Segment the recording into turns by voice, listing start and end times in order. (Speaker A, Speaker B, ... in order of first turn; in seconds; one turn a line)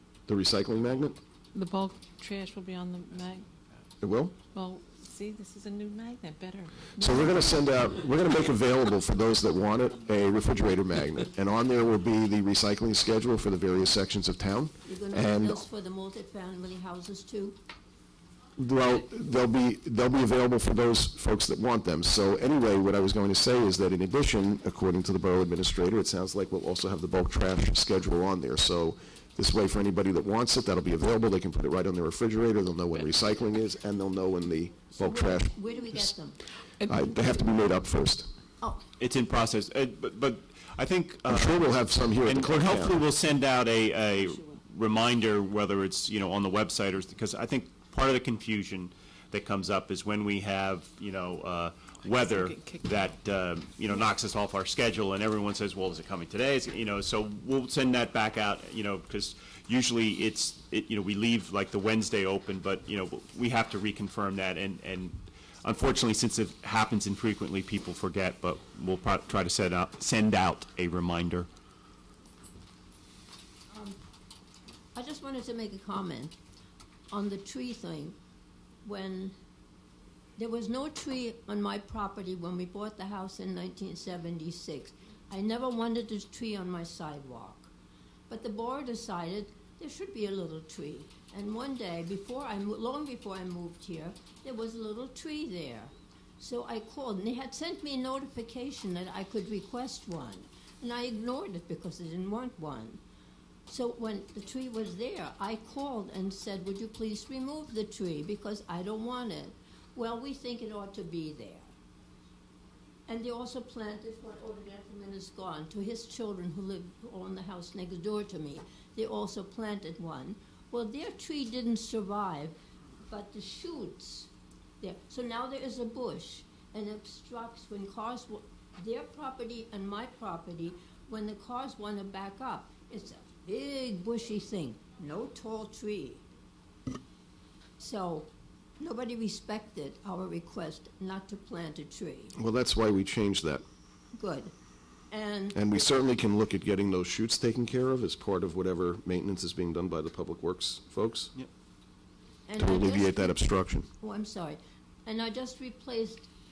Speaker A: 0.3-1.2
Speaker B: 1.5-3.5
Speaker A: 4.0-4.3
Speaker B: 4.5-7.4
Speaker A: 7.0-15.7
Speaker C: 14.8-17.6
Speaker A: 18.6-36.1
Speaker C: 34.9-36.4
Speaker B: 36.8-37.1
Speaker A: 36.8-38.3
Speaker D: 39.0-71.5
Speaker A: 41.3-43.0
Speaker B: 52.2-52.9
Speaker C: 73.7-74.0
Speaker C: 75.0-76.3
Speaker C: 77.1-78.2
Speaker C: 78.8-79.3
Speaker C: 80.4-87.7
Speaker C: 88.3-103.0
Speaker C: 103.7-111.7
Speaker C: 113.1-124.3
Speaker C: 124.8-136.2
Speaker C: 137.8-142.3
Speaker A: 142.3-143.6
Speaker C: 144.1-144.5
Speaker C: 145.1-145.6
Speaker A: 145.5-151.3
Speaker C: 152.5-156.3
Speaker A: 152.6-153.9